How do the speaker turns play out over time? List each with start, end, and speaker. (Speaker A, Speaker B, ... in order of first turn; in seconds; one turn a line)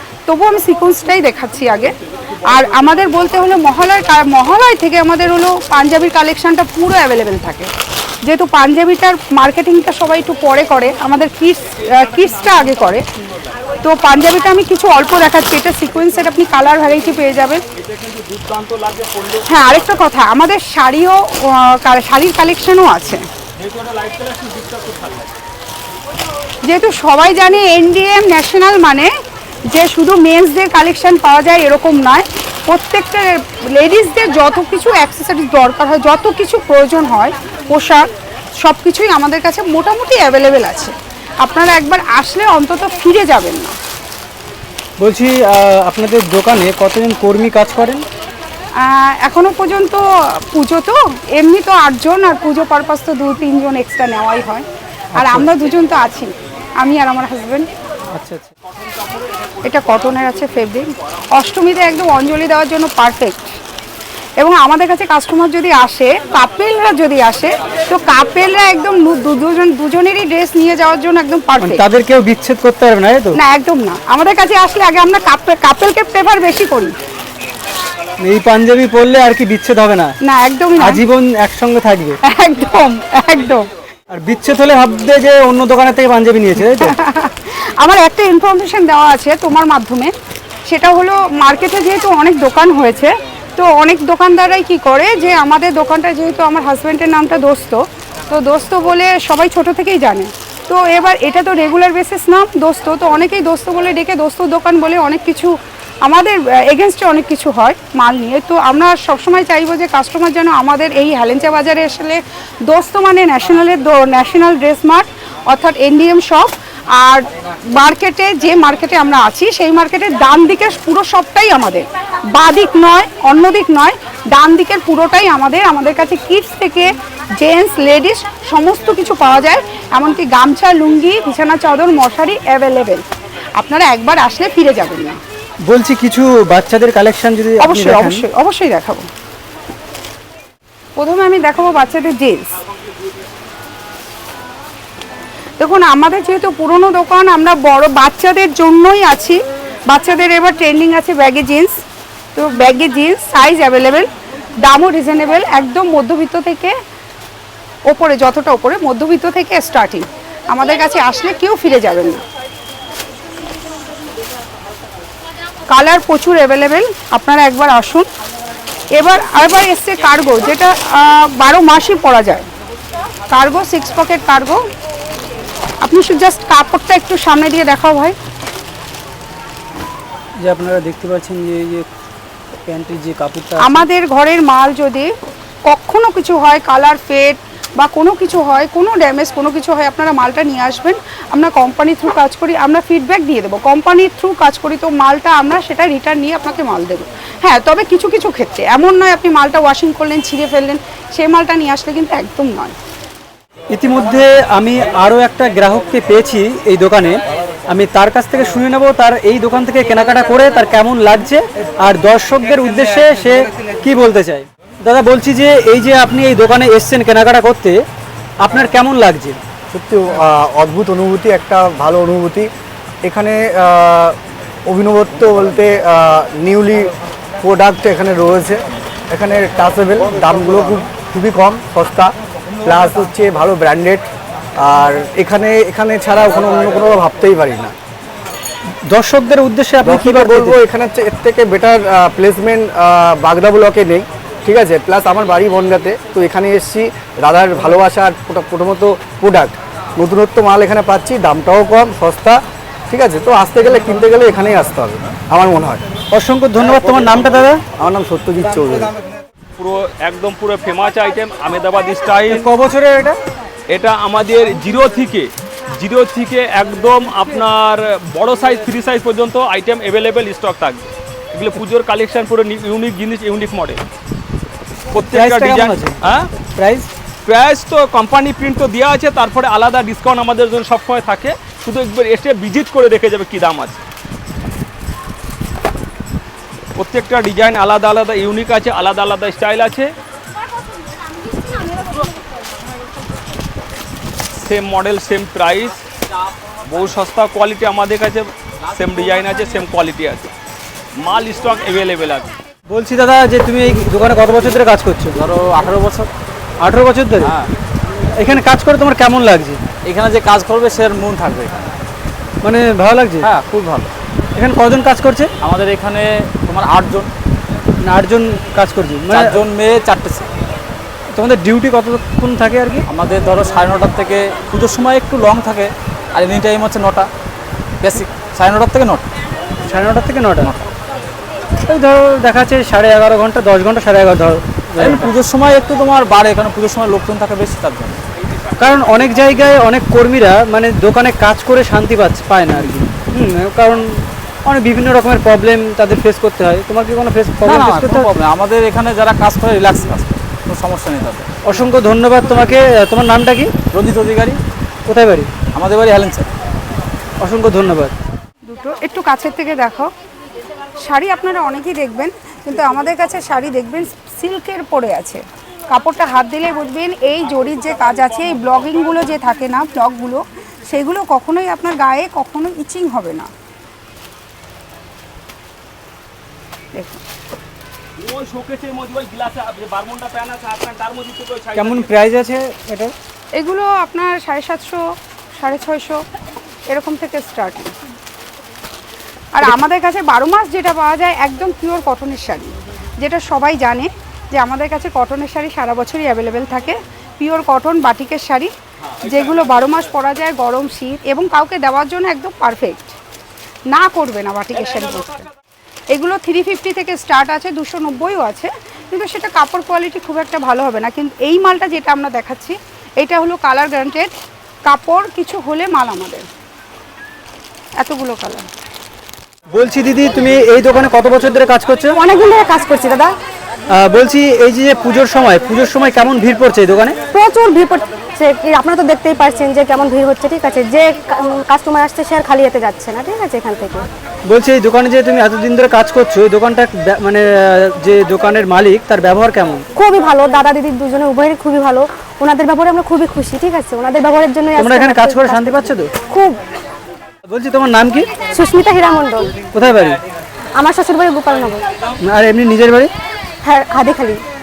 Speaker A: 0.3-1.9
Speaker A: 2.5-7.7
Speaker A: 8.2-13.0
Speaker A: 13.8-17.6
Speaker B: 17.8-19.4
Speaker A: 19.5-23.2
Speaker B: 23.6-25.3
Speaker A: 26.6-29.1
Speaker A: 29.7-38.1
Speaker A: 38.6-43.7
Speaker C: 45.0-48.0
Speaker A: 48.8-54.6
Speaker C: 55.1-55.5
Speaker A: 55.1-57.7
Speaker C: 58.1-58.5
Speaker A: 59.6-63.5
Speaker A: 64.4-71.8
Speaker C: 71.6-73.4
Speaker A: 73.3-76.9
Speaker C: 78.2-80.1
Speaker A: 80.2-81.0
Speaker C: 80.8-82.2
Speaker A: 82.3-83.7
Speaker C: 84.1-87.0
Speaker A: 86.8-90.1
Speaker A: 90.7-133.0
Speaker A: 133.6-135.2
Speaker C: 135.7-138.2
Speaker A: 137.6-139.1
Speaker A: 141.0-142.5
Speaker A: 145.6-151.8
Speaker A: 152.3-154.1
Speaker A: 154.6-156.7
Speaker A: 157.9-162.2
Speaker A: 165.7-168.1
Speaker A: 168.9-172.5
Speaker A: 173.3-174.6
Speaker A: 175.8-178.2
Speaker C: 180.4-181.9
Speaker C: 182.6-183.8
Speaker A: 183.6-185.1
Speaker A: 185.7-202.7
Speaker C: 203.7-217.8
Speaker C: 218.4-219.4
Speaker D: 219.7-222.5
Speaker D: 223.0-232.1
Speaker D: 232.6-234.1
Speaker D: 234.6-237.7
Speaker C: 238.9-240.6
Speaker D: 239.8-255.8
Speaker C: 256.1-257.6
Speaker D: 257.8-258.9
Speaker B: 259.6-262.5
Speaker C: 262.3-263.2
Speaker B: 263.7-273.8
Speaker B: 274.9-276.3
Speaker C: 275.1-276.0
Speaker C: 276.5-276.9
Speaker B: 277.2-283.8
Speaker B: 286.8-289.9
Speaker B: 294.4-295.8
Speaker B: 296.6-300.3
Speaker B: 301.0-302.3
Speaker C: 302.7-305.2
Speaker E: 305.1-306.1
Speaker C: 306.6-307.3
Speaker E: 307.2-307.5
Speaker C: 308.1-309.6
Speaker E: 309.9-311.7
Speaker C: 312.4-313.3
Speaker E: 313.2-313.9
Speaker C: 314.4-315.3
Speaker E: 315.4-317.1
Speaker C: 317.8-319.4
Speaker E: 319.1-320.3
Speaker C: 321.1-322.9
Speaker E: 322.9-327.1
Speaker E: 327.8-329.0
Speaker C: 329.6-330.5
Speaker E: 330.4-330.7
Speaker C: 331.6-335.1
Speaker E: 334.8-338.0
Speaker C: 338.6-348.1
Speaker E: 347.4-351.3
Speaker C: 351.4-353.5
Speaker E: 353.7-354.4
Speaker C: 354.9-355.3
Speaker E: 355.5-356.3
Speaker C: 357.2-357.9
Speaker A: 358.4-359.9
Speaker A: 360.8-373.3
Speaker A: 376.7-377.0
Speaker B: 378.0-381.9
Speaker C: 381.5-382.9
Speaker A: 383.4-384.8
Speaker A: 385.4-386.0
Speaker A: 386.7-387.7
Speaker A: 389.3-398.5
Speaker A: 399.0-402.9
Speaker A: 403.7-405.3
Speaker A: 405.9-414.1
Speaker A: 414.7-416.2
Speaker A: 417.8-418.5
Speaker C: 419.5-422.0
Speaker F: 421.9-423.1
Speaker C: 423.7-427.0
Speaker F: 427.1-433.9
Speaker C: 434.3-439.6
Speaker F: 439.7-446.4
Speaker C: 444.6-445.9
Speaker C: 447.3-448.1
Speaker F: 448.3-449.4
Speaker C: 449.5-450.0
Speaker F: 450.6-451.6
Speaker C: 452.0-452.9
Speaker F: 453.4-454.2